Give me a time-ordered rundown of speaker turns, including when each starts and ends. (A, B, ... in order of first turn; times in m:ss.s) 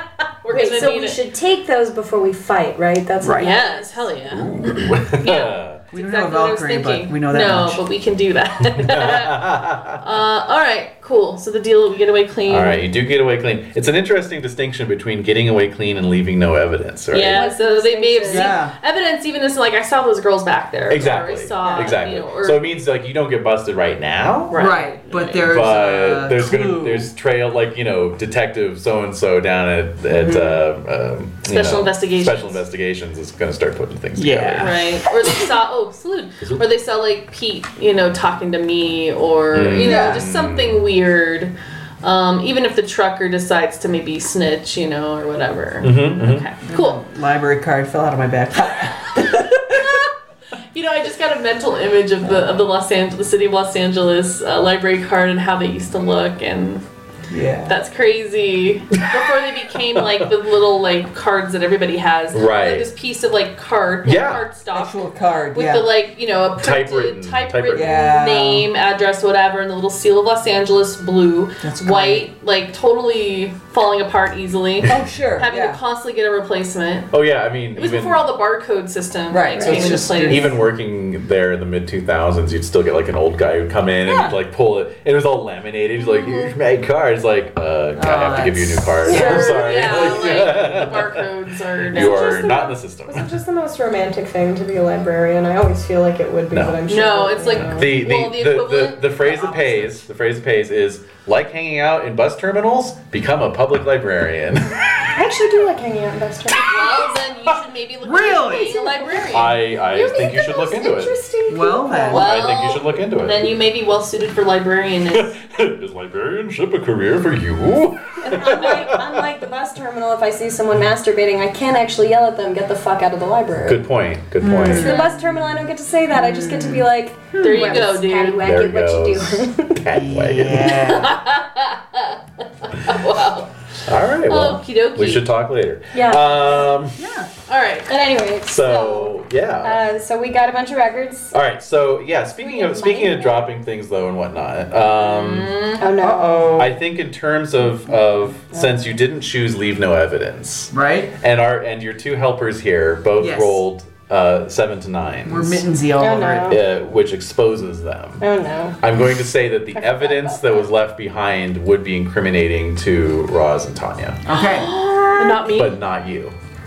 0:00.4-0:01.2 A
0:00.5-0:04.1 B
0:03.2-0:03.5 C
0:03.4-0:04.5 A
0:04.3-0:05.8 D
0:05.1-0:09.4 A
0:05.9-0:07.8 C
0:08.7-0:10.0 D
0:10.0-0:12.8 A
0:12.5-0:17.4 D
0:17.1-0:22.6 A
0:17.3-0:18.6 B
0:18.2-0:18.7 C
0:20.9-0:24.6 D
0:21.6-0:21.9 B
0:24.5-0:25.5 A
0:24.5-0:27.1 C
0:25.4-0:34.8 D
0:30.1-0:30.6 C
0:31.5-0:32.6 A
0:34.2-0:35.0 C
0:34.6-0:47.0 A
0:39.5-0:40.9 D
0:39.8-0:40.2 C
0:45.8-0:46.5 D
0:46.7-0:50.0 C
0:50.7-0:56.8 A
0:57.3-0:57.8 C
0:57.6-1:17.1 A
1:02.3-1:02.9 D
1:04.0-1:04.4 D
1:04.7-1:05.9 C
1:06.6-1:08.0 D
1:07.7-1:08.7 C
1:11.6-1:12.3 C
1:14.8-1:15.8 C
1:17.1-1:18.2 D
1:17.7-1:20.6 A
1:19.3-1:20.6 C
1:19.6-1:20.1 B
1:20.2-1:31.2 D
1:24.0-1:24.4 C
1:28.0-1:29.5 C
1:29.0-1:30.4 B
1:29.1-1:32.5 A
1:31.9-1:33.3 D
1:31.9-1:37.9 B
1:36.5-1:36.8 D
1:36.9-1:39.9 A
1:37.6-1:44.8 D
1:45.1-1:47.0 B
1:46.6-1:49.6 A
1:48.0-1:49.3 C
1:49.3-1:51.1 D
1:49.9-1:52.4 B
1:51.5-1:52.2 C
1:52.1-1:55.3 A
1:52.1-1:53.5 D
1:55.1-1:59.0 D
1:58.2-2:03.8 B
2:03.6-2:04.9 D
2:04.4-2:05.1 C
2:04.6-2:09.9 B
2:06.1-2:07.8 C
2:07.4-2:08.5 A
2:08.4-2:10.8 D
2:10.0-2:11.2 C
2:10.6-2:13.5 A
2:13.8-2:17.0 D
2:14.3-2:15.3 A
2:15.9-2:16.8 B
2:17.0-2:17.3 C
2:17.5-2:17.9 A
2:17.9-2:21.3 B
2:18.4-2:19.8 D
2:21.3-2:25.5 D
2:22.4-2:23.5 B
2:25.0-2:25.9 A
2:25.8-2:26.6 B
2:26.0-2:26.8 C
2:26.6-2:35.6 D
2:30.7-2:31.1 C
2:33.2-2:33.6 C
2:35.2-2:36.6 C
2:36.0-2:36.6 B
2:36.5-2:38.2 D
2:38.2-2:38.8 B
2:38.8-2:44.2 D
2:39.8-2:40.4 B
2:44.2-2:44.7 C
2:44.3-2:45.8 A
2:44.7-2:45.5 B
2:45.5-2:46.3 D